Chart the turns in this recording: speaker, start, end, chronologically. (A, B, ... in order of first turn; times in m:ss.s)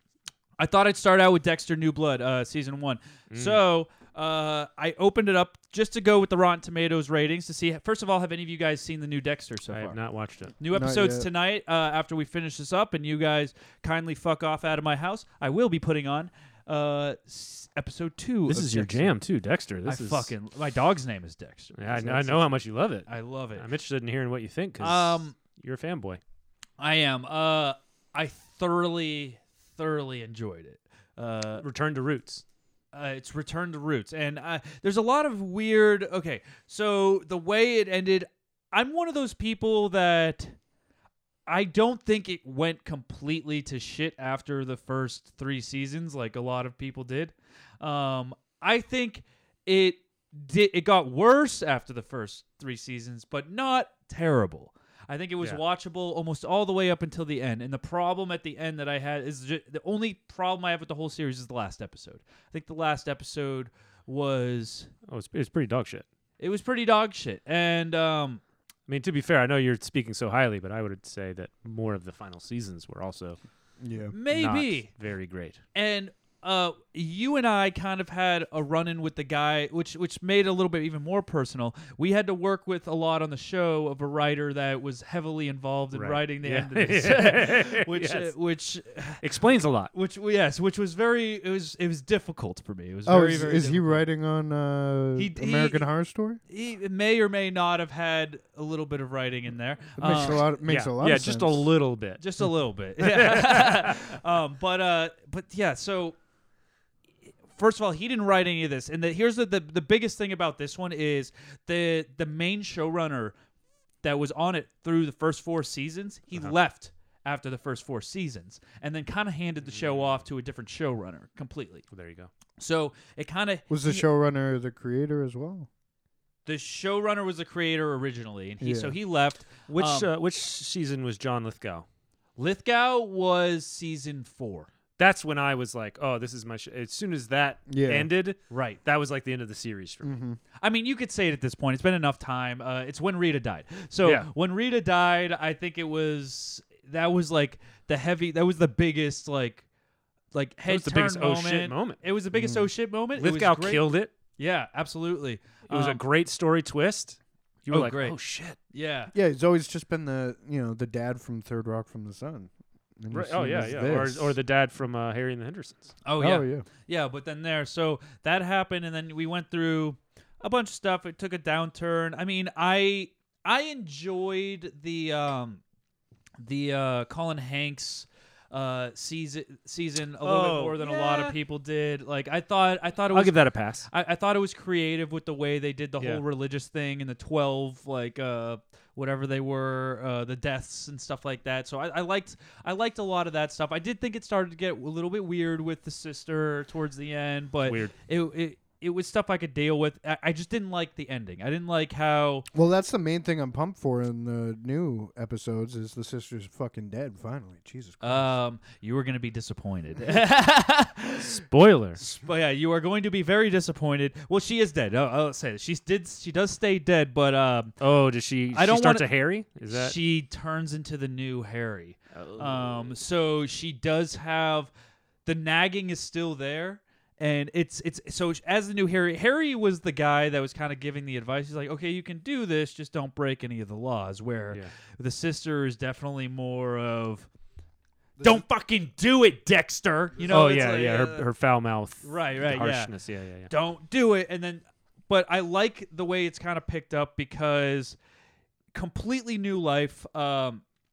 0:00.6-0:10.0 A
0:03.3-0:03.6 B
0:09.7-0:10.5 B
0:10.6-0:19.2 A
0:10.7-0:11.3 C
0:18.5-0:20.3 B
0:19.8-0:23.6 A
0:21.7-0:26.2 B
0:24.8-0:25.4 A
0:26.8-0:31.6 A
0:31.6-0:32.4 B
0:32.9-0:40.5 A
0:41.5-1:04.9 A
1:05.1-1:06.0 B
1:06.4-1:08.4 A
1:08.9-1:13.4 B
1:13.8-1:14.2 C
1:14.1-1:14.9 A
1:14.3-1:15.6 B
1:15.7-1:29.2 A
1:25.9-1:28.3 B
1:29.2-1:29.9 B
1:29.9-1:34.0 A
1:33.0-1:36.4 C
1:35.2-1:35.8 A
1:36.5-1:40.5 A
1:40.0-1:41.8 C
1:40.6-1:42.2 B
1:42.2-1:46.2 A
1:43.0-1:43.9 B
1:47.5-1:53.4 A
1:54.0-2:01.8 A
1:59.6-2:00.2 B
2:01.9-2:02.3 B
2:02.6-2:04.0 A
2:03.7-2:05.7 C
2:06.4-2:10.1 A
2:08.6-2:09.0 C
2:09.7-2:11.8 B
2:12.4-2:14.7 A
2:15.0-2:20.2 B
2:17.7-2:18.1 C
2:18.5-2:18.8 A
2:20.0-2:20.4 C
2:20.6-2:29.6 A
2:24.0-2:24.3 B
2:30.3-2:36.0 A
2:30.7-2:32.0 B
2:32.3-2:32.7 C
2:33.2-2:34.1 B
2:35.7-2:38.6 B
2:37.7-2:39.1 A
2:39.1-2:44.4 C
2:43.1-2:45.9 B
2:46.0-2:55.6 A
2:46.2-2:46.6 C
2:56.4-3:22.5 A
3:00.2-3:01.3 B
3:03.1-3:03.9 B
3:17.6-3:17.9 B
3:22.5-3:28.4 C
3:28.0-3:31.3 A
3:31.2-3:32.0 B
3:32.0-3:37.8 A
3:37.8-3:40.0 B
3:38.5-3:44.7 A
3:42.1-3:43.0 B
3:45.2-3:57.3 A
3:58.2-3:58.4 C
3:58.2-4:01.3 A
4:00.2-4:00.6 C
4:00.3-4:03.5 B
4:02.0-4:08.0 A
4:08.7-4:10.6 A